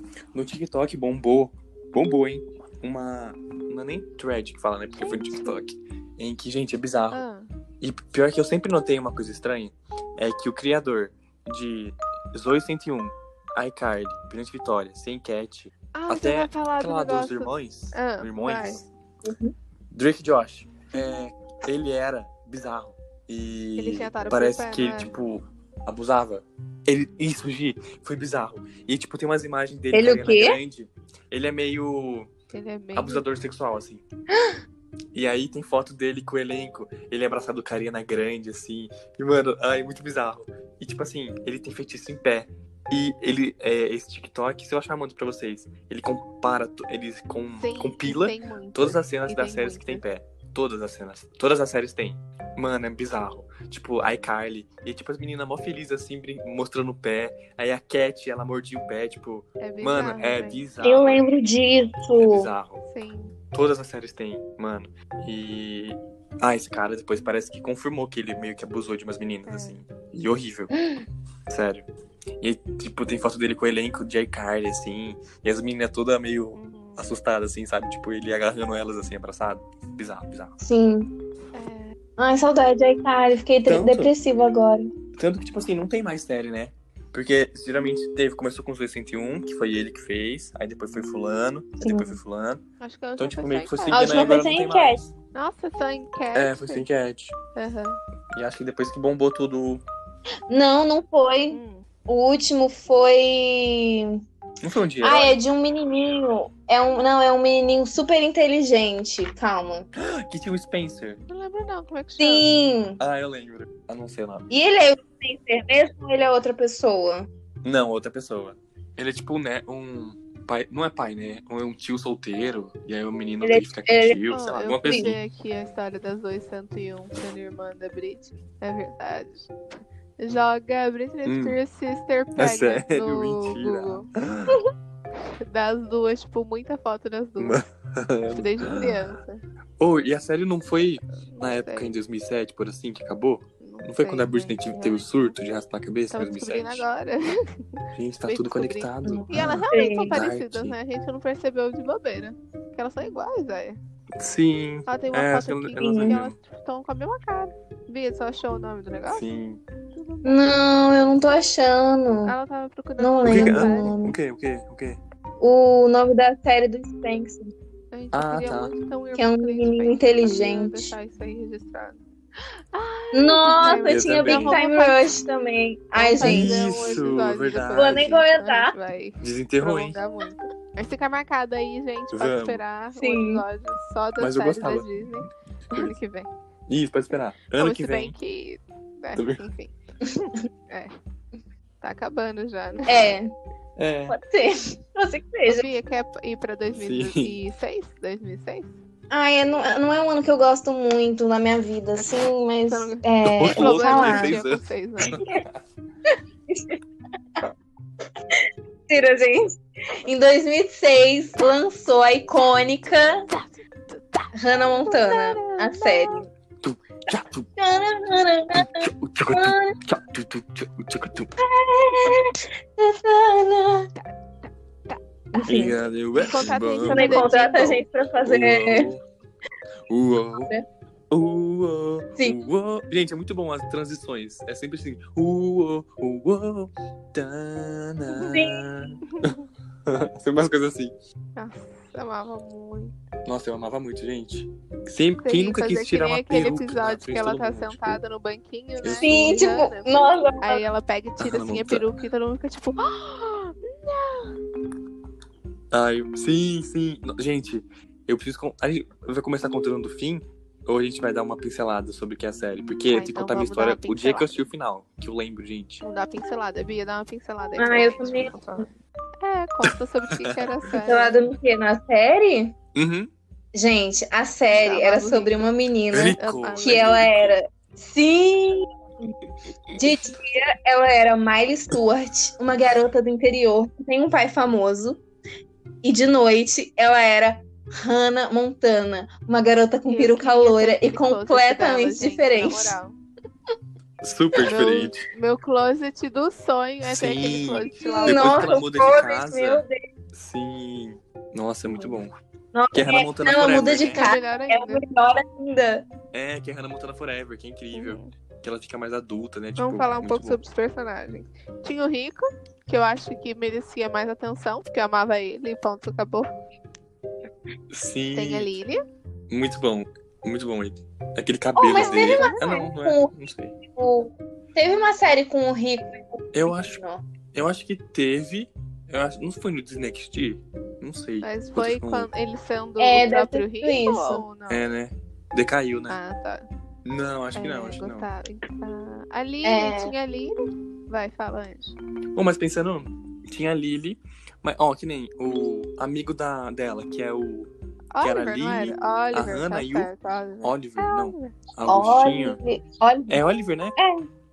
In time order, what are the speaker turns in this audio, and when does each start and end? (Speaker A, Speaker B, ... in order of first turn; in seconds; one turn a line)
Speaker A: 0.3-7.2
Speaker B: 5.0-5.6
Speaker B: 7.1-7.5
Speaker A: 7.8-18.9
Speaker B: 15.9-18.8
Speaker C: 19.2-19.5
Speaker A: 19.9-32.3
Speaker B: 23.8-25.1
Speaker C: 29.9-30.6
Speaker B: 32.5-33.2
Speaker A: 33.0-34.0
Speaker A: 35.1-61.3
Speaker B: 47.6-50.0
Speaker B: 59.6-60.6
Speaker C: 60.8-62.5
Speaker A: 62.2-62.8
Speaker B: 62.9-63.3
Speaker A: 63.5-70.7
Speaker B: 69.5-69.8
Speaker A: 71.5-71.9
Speaker A: 72.4-80.5
Speaker B: 76.5-77.1
Speaker C: 80.6-81.1
Speaker B: 81.5-82.0
Speaker C: 82.2-84.9
Speaker A: 83.7-84.1
Speaker A: 85.2-92.6
Speaker C: 91.8-92.2
Speaker B: 92.8-94.4
Speaker A: 93.2-95.1
Speaker C: 93.9-95.0
Speaker B: 95.3-96.8
Speaker A: 96.3-97.4
Speaker B: 97.6-98.0
Speaker A: 98.3-99.8
Speaker C: 100.5-104.2
Speaker B: 101.5-101.9
Speaker A: 104.6-105.4
Speaker C: 105.0-109.9
Speaker A: 110.0-111.2
Speaker B: 111.3-112.5
Speaker C: 112.2-113.0
Speaker A: 113.0-114.5
Speaker C: 114.5-117.3
Speaker A: 117.6-125.2
Speaker C: 123.4-124.2
Speaker B: 124.3-129.5
Speaker B: 130.2-134.6
Speaker A: 131.2-131.6
Speaker A: 132.4-134.6
Speaker B: 135.5-137.6
Speaker A: 137.4-139.2
Speaker B: 138.3-139.4
Speaker A: 139.8-146.8
Speaker B: 141.2-142.0
Speaker B: 143.6-145.3
Speaker B: 146.1-153.8
Speaker A: 147.9-150.8
Speaker C: 149.1-150.2
Speaker A: 154.2-156.4
Speaker B: 154.9-159.2
Speaker C: 155.8-156.2
Speaker A: 159.1-159.6
Speaker B: 159.9-160.5
Speaker C: 160.2-162.3
Speaker B: 162.3-164.0
Speaker C: 163.0-164.2
Speaker A: 163.2-165.0
Speaker C: 165.4-167.5
Speaker B: 167.9-172.0
Speaker A: 168.1-168.7
Speaker C: 169.2-170.9
Speaker B: 172.7-175.1
Speaker C: 173.1-176.6
Speaker A: 173.9-174.6
Speaker B: 176.0-186.3
Speaker A: 176.2-178.2
Speaker C: 177.7-178.7
Speaker A: 179.2-180.0
Speaker A: 182.1-182.6
Speaker C: 182.9-183.4
Speaker A: 184.2-185.1
Speaker A: 186.7-188.1
Speaker B: 187.6-190.9
Speaker A: 189.2-189.4
Speaker B: 191.8-193.0
Speaker C: 192.9-193.3
Speaker A: 193.8-194.2
Speaker C: 194.1-195.7
Speaker B: 195.5-198.8
Speaker A: 196.8-197.3
Speaker C: 199.1-204.4
Speaker B: 202.7-205.2
Speaker A: 203.4-205.5
Speaker C: 206.1-206.8
Speaker C: 208.3-213.3
Speaker B: 213.3-216.3
Speaker C: 214.3-216.3
Speaker A: 216.6-217.5
Speaker C: 217.6-219.8
Speaker A: 218.5-221.3
Speaker C: 221.4-223.9
Speaker B: 223.9-225.0
Speaker C: 225.3-225.8
Speaker A: 225.4-229.0
Speaker B: 226.2-227.8
Speaker C: 226.9-228.9
Speaker A: 229.9-230.5
Speaker A: 231.1-239.3
Speaker C: 238.2-238.6
Speaker B: 239.1-239.4
Speaker A: 239.9-240.9
Speaker B: 241.4-242.9
Speaker A: 243.2-248.0
Speaker B: 245.2-254.3
Speaker A: 248.8-249.5
Speaker C: 249.0-250.6
Speaker A: 251.2-251.9
Speaker A: 255.7-265.8
Speaker B: 262.9-264.4
Speaker B: 265.8-271.2
Speaker C: 267.6-268.4
Speaker C: 270.9-272.6
Speaker A: 272.8-273.1
Speaker C: 273.5-279.1
Speaker B: 274.5-275.5
Speaker A: 275.9-277.4
Speaker B: 276.2-276.9
Speaker C: 279.8-285.0
Speaker C: 285.8-292.8
Speaker B: 289.9-293.0
Speaker A: 294.0-295.1
Speaker B: 294.4-298.6
Speaker A: 296.8-299.6
Speaker C: 298.0-299.8
Speaker A: 300.1-302.1
Speaker C: 302.5-305.9
Speaker A: 302.7-304.0
Speaker B: 303.8-304.8
Speaker A: 306.1-310.4
Speaker B: 307.7-308.1
Speaker B: 309.6-316.3
Speaker A: 317.7-318.6
Speaker B: 318.1-318.8
Speaker A: 319.3-323.6
Speaker C: 321.6-323.1
Speaker B: 321.7-322.4
Speaker C: 323.7-327.1
Speaker A: 326.3-326.8
Speaker A: 327.3-332.1
Speaker B: 331.2-334.6
Speaker C: 332.8-334.2
Speaker A: 334.5-336.0
Speaker B: 335.9-336.4
Speaker A: 336.9-338.1
Speaker B: 337.4-341.8
Speaker C: 339.4-339.9
Speaker A: 342.1-347.5
Speaker B: 347.9-351.4
Speaker A: 348.0-349.9
Speaker A: 350.4-352.4
Speaker C: 351.7-353.2
Speaker A: 353.1-353.8
Speaker C: 353.8-354.1